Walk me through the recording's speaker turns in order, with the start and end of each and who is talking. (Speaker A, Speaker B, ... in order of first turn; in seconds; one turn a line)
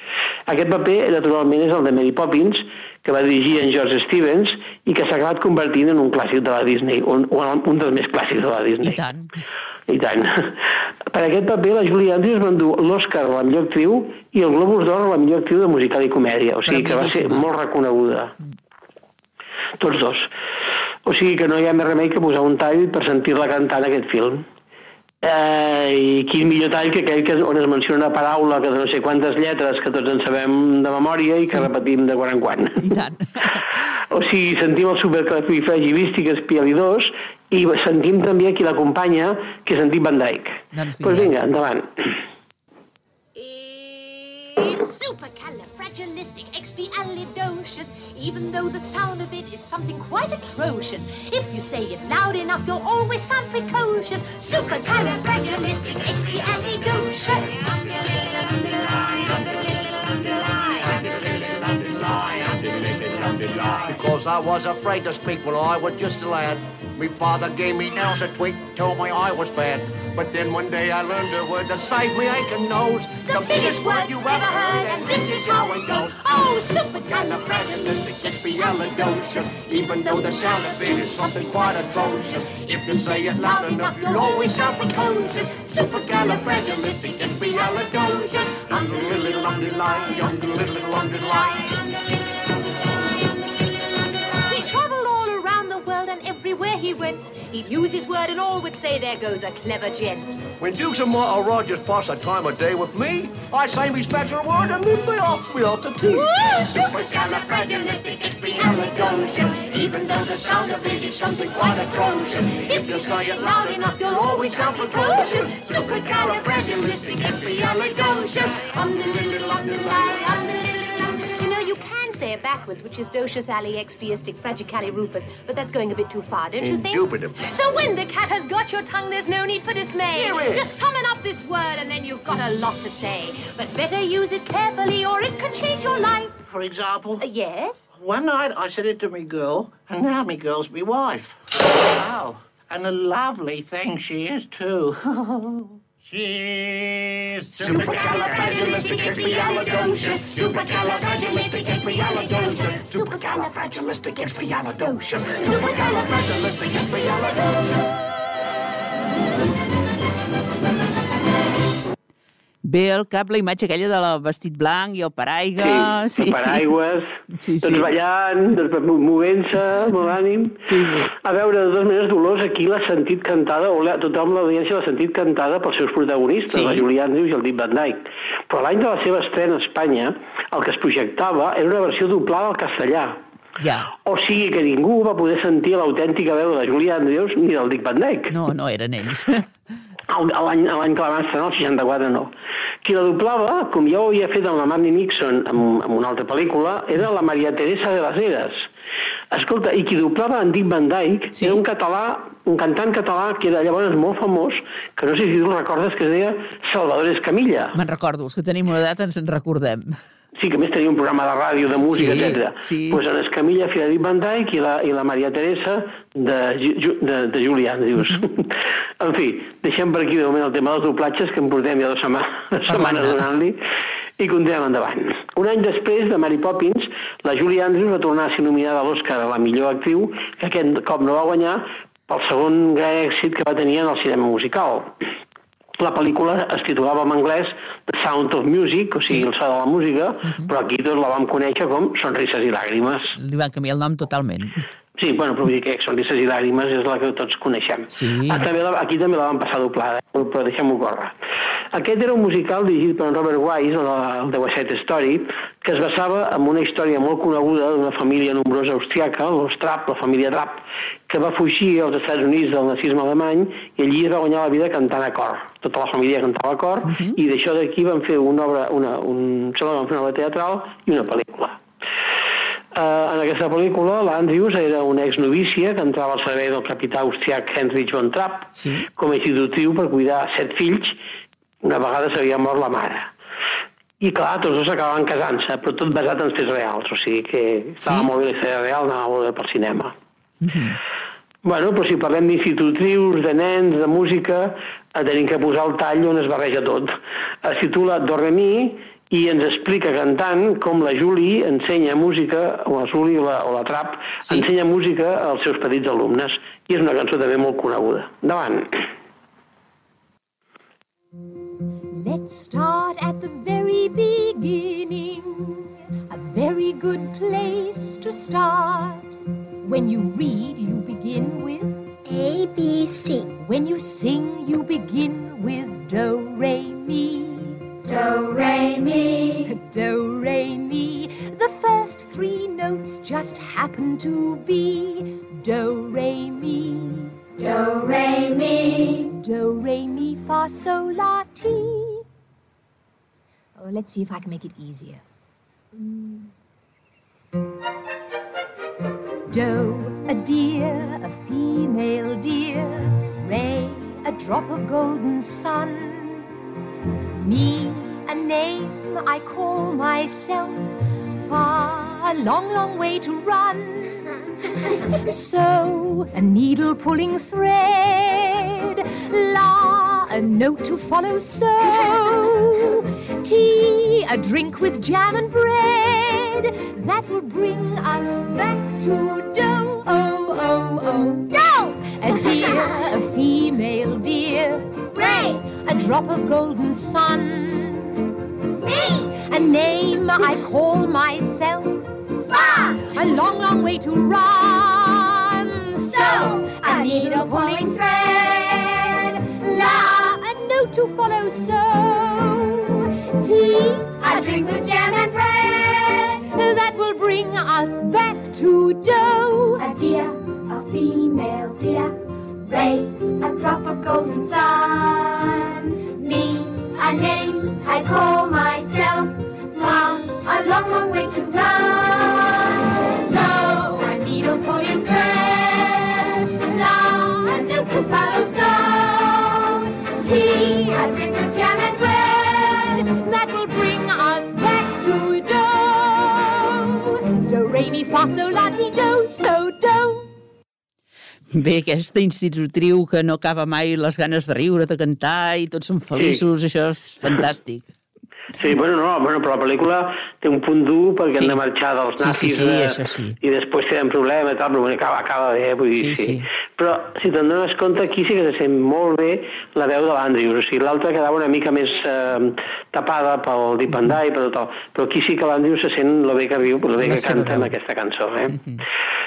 Speaker A: 0.5-9.0
Speaker B: 8.8-9.3
Speaker A: 9.9-10.6
Speaker A: 11.1-18.3
Speaker B: 16.6-17.5
Speaker A: 19.8-20.3
Speaker A: 21.0-24.4
Speaker A: 25.2-32.9
Speaker B: 32.8-33.6
Speaker A: 34.0-42.1
Speaker B: 40.7-41.3
Speaker C: 43.3-61.0
Speaker D: 60.8-76.2
Speaker C: 73.2-82.2
Speaker D: 77.0-91.7
Speaker C: 82.9-91.9
Speaker C: 94.4-100.4
Speaker D: 100.6-114.2
Speaker C: 106.0-136.3
Speaker D: 114.8-117.2
Speaker D: 126.6-127.3
Speaker E: 130.1-130.7
Speaker E: 136.4-137.2
Speaker C: 137.2-137.9
Speaker E: 137.9-145.8
Speaker D: 146.2-147.2
Speaker E: 147.5-150.0
Speaker C: 147.6-157.6
Speaker E: 152.0-152.3
Speaker D: 155.3-156.6
Speaker B: 162.6-166.7
Speaker A: 165.6-183.2
Speaker B: 167.3-167.9
Speaker B: 170.6-171.1
Speaker B: 176.5-176.8
Speaker B: 183.6-183.9
Speaker A: 184.0-188.3
Speaker B: 188.3-189.4
Speaker A: 190.1-192.3
Speaker A: 192.8-198.7
Speaker A: 199.3-207.8
Speaker B: 207.7-210.0
Speaker A: 210.3-223.6
Speaker B: 211.9-213.0
Speaker B: 217.9-218.3
Speaker B: 222.7-223.2
Speaker A: 224.2-234.9
Speaker A: 235.8-243.2
Speaker B: 243.2-244.6
Speaker A: 245.0-251.1
Speaker B: 247.9-248.4
Speaker A: 251.7-271.6
Speaker B: 266.9-267.1
Speaker A: 272.7-281.0
Speaker B: 278.6-278.9
Speaker A: 281.6-283.1
Speaker A: 284.0-289.9
Speaker B: 287.8-288.1
Speaker B: 290.4-290.8
Speaker A: 291.4-308.8
Speaker C: 311.9-321.9
Speaker F: 322.1-323.3
Speaker C: 323.3-327.8
Speaker F: 327.9-329.5
Speaker C: 329.4-337.3
Speaker F: 337.4-339.1
Speaker C: 338.9-342.1
Speaker C: 343.6-345.0
Speaker C: 345.7-346.3
Speaker C: 349.3-356.5
Speaker C: 357.2-388.1
Speaker F: 384.9-385.3
Speaker F: 388.6-389.1
Speaker C: 388.7-404.6
Speaker F: 396.0-398.4
Speaker F: 404.0-405.9
Speaker C: 405.7-409.7
Speaker F: 409.6-432.1
Speaker C: 426.5-427.4
Speaker C: 428.8-429.3
Speaker C: 431.3-440.1
Speaker B: 441.3-447.6
Speaker A: 445.9-446.2
Speaker A: 448.4-468.4
Speaker B: 452.0-453.2
Speaker B: 455.7-456.3
Speaker B: 466.8-467.5